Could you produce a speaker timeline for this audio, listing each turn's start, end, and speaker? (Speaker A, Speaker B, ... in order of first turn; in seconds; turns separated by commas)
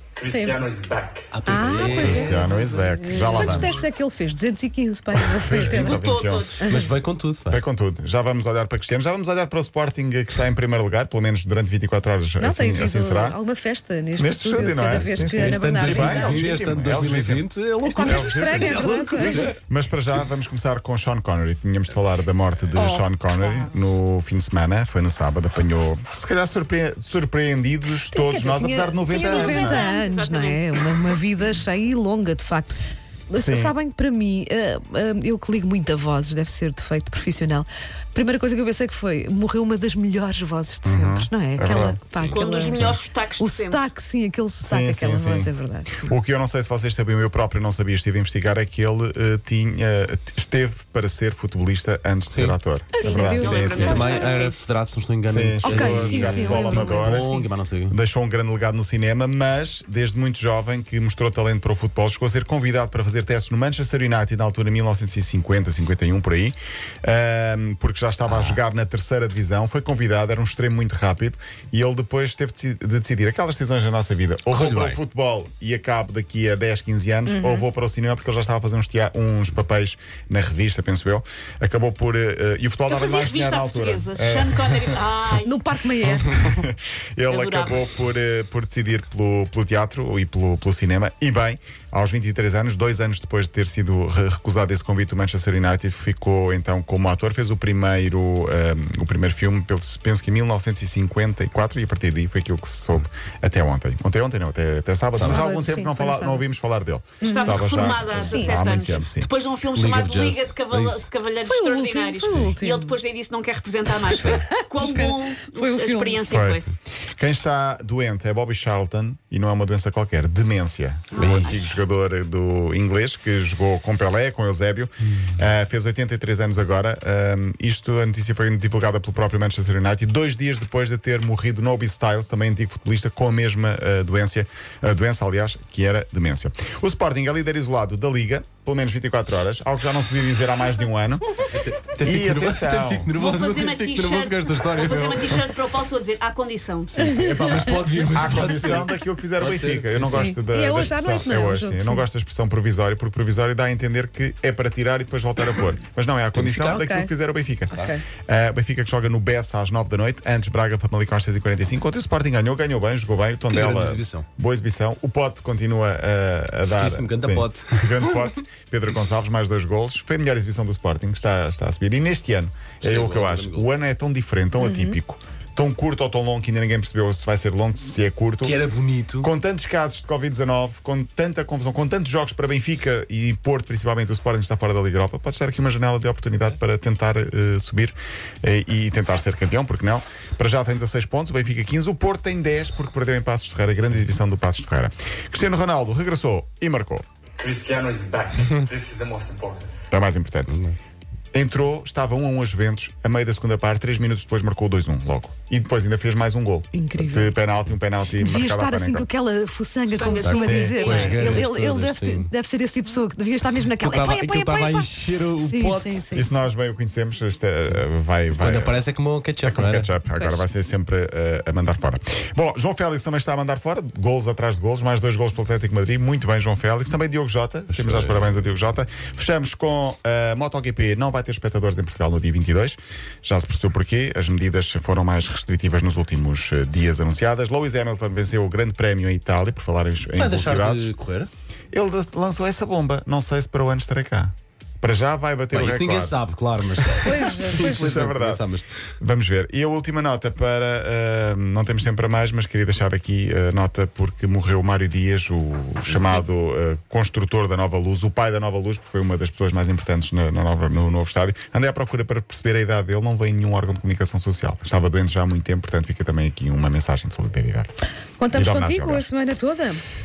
Speaker A: 0.2-1.5, Speaker B: 0.2-0.7, Speaker C: 1.3-3.7, Speaker B: 1.4-5.9, Speaker D: 1.9-3.8, Speaker D: 5.2-6.6, Speaker E: 5.6-6.6, Speaker B: 6.6-6.9, Speaker C: 6.7-7.6, Speaker D: 7.5-13.4, Speaker B: 12.4-16.5, Speaker D: 14.2-29.9, Speaker C: 14.7-19.6, Speaker B: 17.8-19.5, Speaker B: 22.7-23.1, Speaker B: 28.1-32.8, Speaker E: 29.1-31.2, Speaker B: 33.3-46.1, Speaker D: 33.3-33.7, Speaker D: 40.8-42.0, Speaker E: 42.3-43.8, Speaker D: 42.7-43.0, Speaker D: 44.6-45.5, Speaker D: 46.0-54.1, Speaker C: 52.3-52.6, Speaker B: 52.9-54.3, Speaker E: 53.0-54.6, Speaker C: 53.5-58.0, Speaker D: 55.3-85.0, Speaker B: 55.6-57.4, Speaker C: 68.2-68.6, Speaker C: 74.5-75.0, Speaker B: 77.2-77.7, Speaker E: 82.9-85.6, Speaker B: 85.4-86.6, Speaker D: 86.1-109.3, Speaker E: 87.3-87.8, Speaker C: 105.1-105.5, Speaker B: 105.2-106.5, Speaker B: 107.2-108.6, Speaker E: 107.2-116.7, Speaker C: 108.1-109.0, Speaker C: 109.7-111.1, Speaker B: 111.4-113.0, Speaker C: 114.1-114.4, Speaker B: 114.2-116.3, Speaker D: 116.3-116.6, Speaker D: 117.2-141.3, Speaker E: 121.1-121.5, Speaker C: 121.2-121.6, Speaker C: 141.5-145.4, Speaker D: 142.0-143.1, Speaker E: 143.2-147.0, Speaker C: 146.9-150.3, Speaker B: 147.0-147.6, Speaker D: 148.1-178.6, Speaker B: 150.1-152.1, Speaker C: 156.3-156.8, Speaker B: 156.8-157.1, Speaker B: 157.8-158.0, Speaker C: 163.4-164.2, Speaker C: 166.6-168.3, Speaker C: 172.8-173.7, Speaker B: 174.6-175.0, Speaker C: 178.4-179.3, Speaker D: 179.2-197.0, Speaker A: 197.4-199.7, Speaker C: 198.4-198.7, Speaker D: 199.9-200.6, Speaker D: 201.3-209.1, Speaker B: 206.7-207.3, Speaker B: 208.1-216.4, Speaker E: 209.9-211.5, Speaker C: 210.1-212.3, Speaker C: 213.7-216.1, Speaker D: 216.1-218.8, Speaker C: 218.3-219.9, Speaker D: 219.4-240.9, Speaker B: 220.1-220.4, Speaker C: 227.7-228.4, Speaker C: 240.1-241.3, Speaker D: 241.7-246.2, Speaker C: 245.5-248.7, Speaker D: 247.0-248.5, Speaker B: 247.0-247.9, Speaker D: 249.0-267.8, Speaker C: 255.9-256.2, Speaker B: 268.2-269.8, Speaker D: 268.3-269.1